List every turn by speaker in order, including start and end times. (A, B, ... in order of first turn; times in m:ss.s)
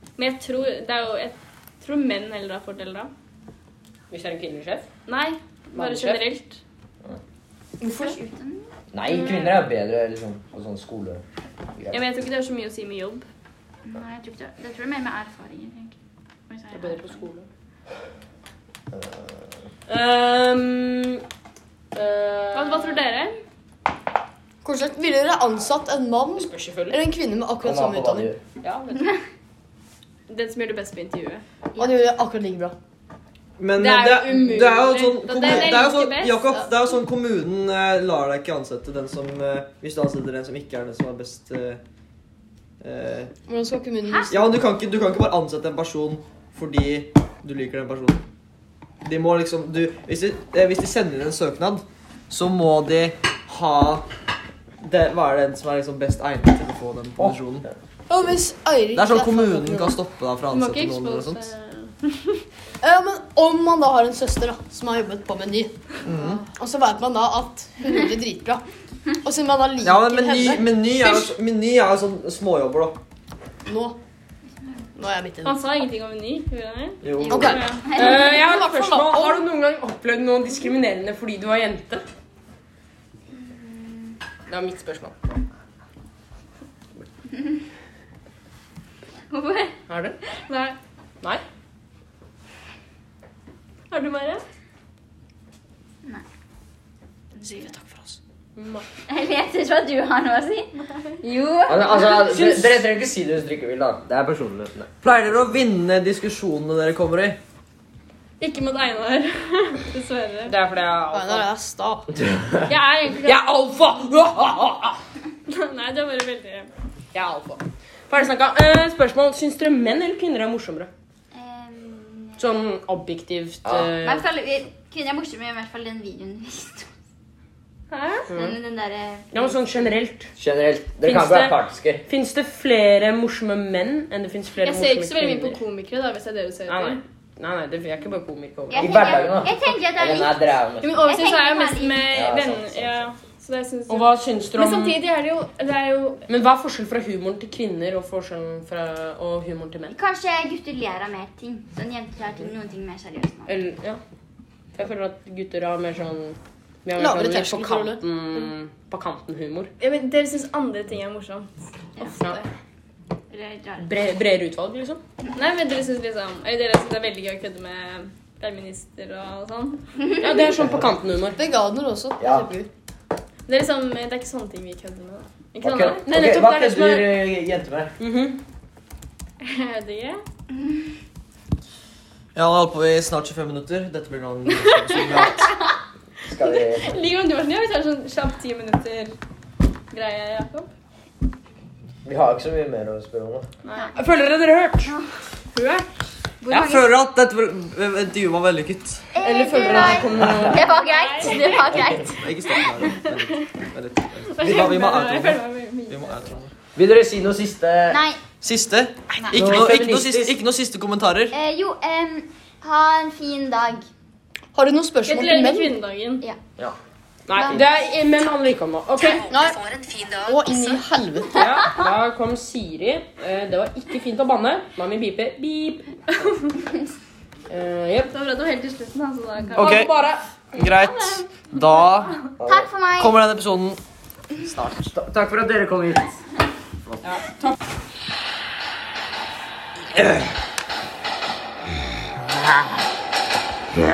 0:00.2-0:03.1 A
0:04.1-0:04.9 B
0:05.1-0:06.6 A
0:05.7-0:06.2 B
0:07.8-0:08.7 C
0:08.9-0:11.2 D
0:09.1-0:09.5 A
0:11.9-0:13.2 A
0:13.8-0:15.9 C
0:16.5-0:17.3 C
0:16.7-0:17.5 B
0:19.9-0:21.2 B
0:21.9-0:23.0 B
0:22.5-0:23.4 A
0:24.6-0:28.3 E
0:26.4-0:27.0 B
0:27.6-0:28.4 D
0:28.6-0:29.1 B
0:30.3-0:31.9 A
0:31.8-0:32.7 E
0:33.6-0:41.8 F
0:33.8-0:36.4 A
0:42.8-0:43.3 F
0:43.5-0:44.4 E
0:44.3-0:48.2 F
0:49.0-0:54.0 F
0:54.8-0:57.6 F
0:58.1-1:00.0 E
0:58.9-1:01.5 F
1:00.5-1:02.4 A
1:02.8-1:08.6 E
1:06.0-1:06.4 F
1:09.2-1:11.4 E
1:09.8-1:13.0 F
1:13.6-1:14.0 E
1:15.0-1:15.6 E
1:15.4-1:17.9 A
1:17.0-1:17.6 F
1:17.3-1:19.4 E
1:17.3-1:18.2 C
1:17.9-1:22.0 B
1:23.3-1:24.2 C
1:24.5-1:25.1 B
1:27.3-1:27.6 C
1:29.3-1:29.8 C
1:29.9-1:30.2 B
1:30.5-1:30.8 A
1:33.9-1:34.4 A
1:37.4-1:37.7 C
1:38.6-1:38.8 B
1:39.1-1:42.4 C
1:41.6-1:44.9 D
1:42.2-1:42.8 B
1:45.0-1:47.4 F
1:48.4-1:50.5 A
1:50.5-1:51.5 B
1:51.1-1:52.1 E
1:52.7-1:53.4 A
1:53.2-1:55.0 B
1:55.5-1:56.7 A
1:57.1-2:00.9 B
2:01.3-2:02.4 C
2:02.4-2:04.2 B
2:03.6-2:03.9 D
2:04.0-2:06.9 C
2:07.9-2:08.3 A
2:08.3-2:09.6 C
2:09.3-2:10.3 B
2:10.4-2:12.0 D
2:11.0-2:15.6 B
2:14.6-2:17.0 A
2:16.7-2:19.5 B
2:18.7-2:20.3 C
2:18.8-2:21.1 D
2:20.8-2:26.2 A
2:21.0-2:22.1 C
2:22.1-2:22.9 D
2:23.9-2:25.0 B
2:26.3-2:30.0 B
2:29.9-2:33.5 C
2:33.4-2:34.0 B
2:34.8-2:39.7 B
2:37.0-2:38.0 E
2:39.8-2:42.4 A
2:43.3-2:43.8 C
2:43.8-2:45.0 B
2:45.3-2:49.8 A
2:50.2-2:51.4 B
2:51.4-2:52.7 E
2:52.2-2:52.5 D
2:53.5-2:56.0 A
2:55.6-2:57.9 D
2:56.0-2:57.2 B
2:58.0-2:58.4 B
2:59.4-3:00.2 A
3:02.3-3:05.5 F
3:04.5-3:05.5 A
3:06.3-3:06.9 D
3:06.4-3:09.1 A
3:09.9-3:10.7 A
3:12.0-3:13.4 D
3:13.6-3:13.9 A
3:14.0-3:15.0 B
3:15.5-3:15.9 A
3:16.4-3:17.0 C
3:16.5-3:19.1 F
3:19.1-3:22.9 C
3:19.2-3:20.6 B
3:20.2-3:20.5 D
3:20.5-3:21.9 A
3:22.1-3:26.5 F
3:22.8-3:23.5 A
3:24.3-3:26.4 A
3:26.8-3:28.0 D
3:27.9-3:28.2 C
3:28.4-3:31.4 F
3:29.2-3:29.6 C
3:29.3-3:30.3 D
3:31.3-3:33.9 C
3:34.5-3:35.7 E
3:35.0-3:36.2 A
3:37.3-3:39.3 B
3:37.4-3:37.6 C
3:39.1-3:40.3 C
3:39.3-3:39.7 E
3:40.2-3:41.4 E
3:41.3-3:45.9 B
3:41.4-3:41.8 C
3:46.1-3:46.6 A
3:47.5-3:48.1 B
3:48.1-3:49.8 A
3:49.5-3:49.9 F
3:49.6-3:50.3 B
3:50.5-3:52.2 F
3:50.6-3:52.1 A
3:52.4-3:52.7 D
3:52.4-3:53.2 C
3:53.0-3:53.8 F
3:54.4-3:54.9 F
3:54.9-3:56.1 D
3:57.1-3:57.5 B
3:59.9-4:00.2 D